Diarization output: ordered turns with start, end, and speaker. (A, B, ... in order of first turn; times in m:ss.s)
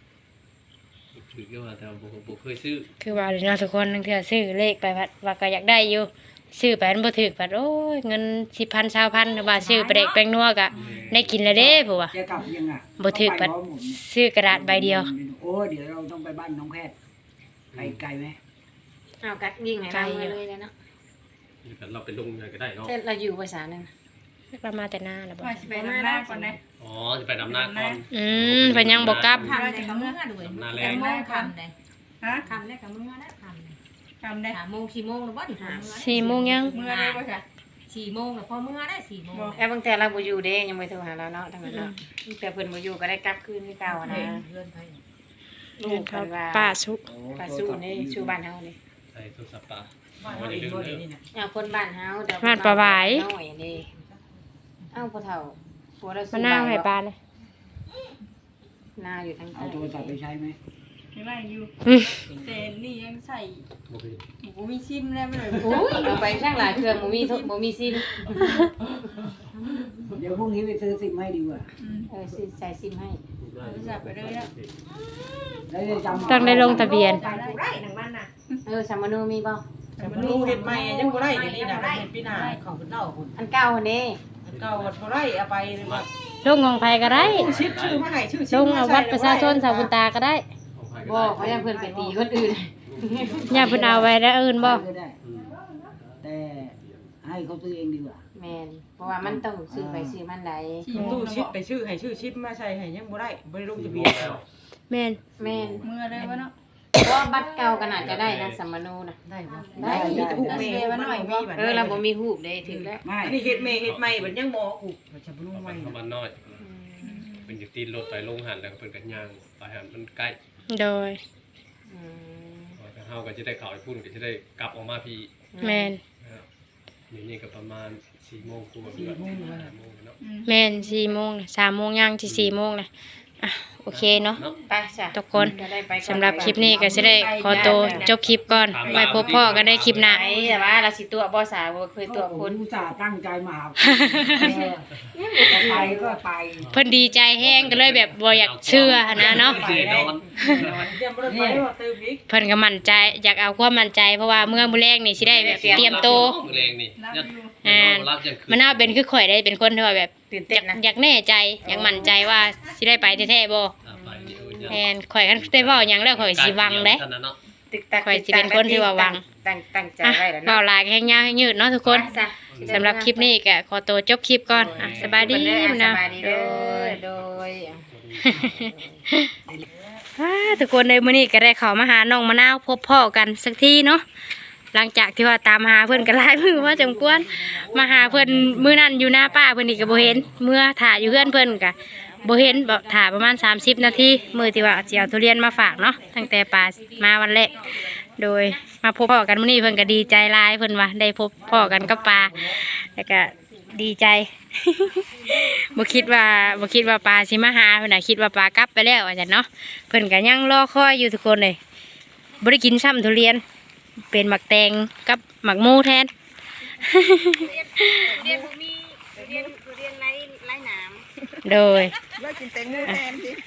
0:01.1-0:02.9 A
0:03.0-0:12.1 B
0:09.5-0:10.2 C
0:10.7-0:11.4 A
0:11.5-0:16.9 D
0:13.0-0:15.1 B
0:17.7-0:18.0 A
0:17.8-0:18.4 D
0:19.2-0:20.7 E
0:19.9-0:20.4 B
0:21.6-0:23.0 A
0:22.8-0:23.9 E
0:24.5-0:25.7 B
0:25.4-0:26.6 F
0:25.7-0:26.6 E
0:26.8-0:29.6 A
0:27.4-0:28.0 F
0:28.1-0:29.5 B
0:29.3-0:31.7 C
0:29.5-0:30.2 F
0:30.4-0:31.1 A
0:30.8-0:31.6 F
0:32.2-0:32.5 F
0:32.2-0:33.8 C
0:34.2-0:34.6 F
0:34.5-0:37.2 C
0:35.6-0:35.9 E
0:35.9-0:36.8 B
0:36.7-0:37.4 F
0:37.9-0:39.6 C
0:39.3-0:39.6 F
0:39.6-0:44.5 E
0:41.7-0:42.0 B
0:43.8-0:45.0 G
0:45.8-0:46.8 E
0:45.8-0:47.0 B
0:47.0-0:48.4 D
0:47.4-0:48.8 E
0:49.1-0:51.0 A
0:50.2-0:51.2 G
0:51.3-0:53.9 E
0:52.4-0:53.3 B
0:53.9-0:54.2 G
0:54.9-0:56.9 E
0:56.3-0:57.2 B
0:59.0-1:00.1 E
0:59.5-1:00.6 D
1:01.1-1:01.7 F
1:01.8-1:02.2 B
1:02.3-1:03.7 F
1:03.9-1:04.2 A
1:04.4-1:07.5 F
1:05.6-1:06.3 C
1:05.6-1:08.1 E
1:08.2-1:09.4 A
1:08.3-1:08.7 F
1:09.6-1:10.0 C
1:10.2-1:11.7 D
1:11.8-1:12.1 F
1:12.1-1:13.2 E
1:13.4-1:14.8 A
1:13.6-1:14.5 F
1:15.6-1:18.3 C
1:15.7-1:17.0 D
1:16.0-1:17.6 F
1:16.3-1:17.2 B
1:18.6-1:19.6 E
1:20.0-1:23.4 G
1:20.0-1:20.4 F
1:20.0-1:22.2 C
1:22.2-1:22.6 F
1:23.4-1:24.2 E
1:24.4-1:26.1 G
1:24.5-1:26.1 A
1:26.4-1:27.5 B
1:27.0-1:28.1 A
1:27.1-1:29.9 G
1:28.5-1:30.4 B
1:30.7-1:31.8 A
1:31.0-1:33.9 E
1:31.4-1:32.2 D
1:32.9-1:33.8 A
1:33.4-1:35.2 D
1:33.5-1:34.8 B
1:35.2-1:37.1 A
1:35.3-1:36.0 C
1:36.2-1:38.2 D
1:38.4-1:41.0 E
1:39.2-1:40.2 D
1:40.8-1:41.6 F
1:40.9-1:44.4 G
1:41.0-1:41.2 B
1:43.7-1:44.4 A
1:44.9-1:45.2 B
1:45.4-1:45.8 E
1:45.4-1:46.2 A
1:45.8-1:46.5 F
1:47.0-1:49.2 E
1:47.1-1:48.1 C
1:48.0-1:48.6 A
1:49.2-1:52.1 G
1:49.4-1:50.1 C
1:49.8-1:50.7 D
1:49.8-1:50.8 E
1:50.0-1:51.5 F
1:51.5-1:53.0 E
1:52.6-1:56.0 G
1:53.0-1:53.4 D
1:53.4-1:53.8 F
1:53.8-1:54.4 A
1:55.5-1:56.6 A
1:56.6-1:57.3 E
1:57.0-1:57.6 F
1:57.5-2:00.4 A
2:00.7-2:01.2 B
2:01.9-2:02.8 E
2:02.8-2:05.3 A
2:05.5-2:05.9 E
2:05.6-2:06.0 B
2:06.2-2:06.5 A
2:07.1-2:10.2 A
2:08.9-2:09.7 G
2:10.2-2:11.1 F
2:10.5-2:12.9 B
2:12.3-2:12.5 A
2:13.4-2:14.4 B
2:13.9-2:14.6 A
2:14.7-2:18.1 E
2:15.1-2:20.2 B
2:16.3-2:20.8 F
2:18.1-2:20.4 A
2:20.0-2:22.6 E
2:22.0-2:24.8 D
2:23.8-2:24.4 B
2:25.2-2:26.2 E
2:25.5-2:26.7 D
2:25.5-2:26.0 G
2:26.6-2:26.9 A
2:26.7-2:29.6 B
2:27.4-2:30.9 A
2:29.0-2:32.2 G
2:31.3-2:31.7 D
2:32.3-2:36.4 B
2:32.8-2:33.3 A
2:35.2-2:39.0 A
2:35.2-2:36.4 E
2:35.8-2:36.7 G
2:37.0-2:37.6 F
2:37.6-2:43.7 B
2:40.3-2:40.8 E
2:41.6-2:42.2 E
2:42.1-2:43.3 F
2:43.8-2:47.4 A
2:43.9-2:44.8 E
2:44.7-2:47.0 B
2:47.7-2:50.6 E
2:48.0-2:49.2 B
2:50.0-2:52.1 B
2:51.2-2:52.9 A
2:51.9-2:53.3 E
2:52.7-2:57.0 B
2:54.5-2:57.8 E
2:54.6-2:56.5 A
2:57.1-2:58.7 A
2:58.2-2:59.3 B
2:58.4-2:59.0 E
3:00.2-3:04.0 B
3:04.7-3:17.6 B
3:06.4-3:10.2 G
3:10.9-3:18.7 C
3:14.2-3:14.6 E
3:18.2-3:31.6 B
3:19.6-3:20.2 C
3:21.4-3:22.6 D
3:25.1-3:25.9 C
3:32.4-3:33.4 B
3:34.1-3:36.1 B
3:36.8-3:38.2 B
3:37.4-3:41.0 E
3:37.4-3:38.5 C
3:39.2-3:39.5 C
3:41.4-3:42.0 B
3:42.6-3:43.2 C
3:42.6-3:43.0 G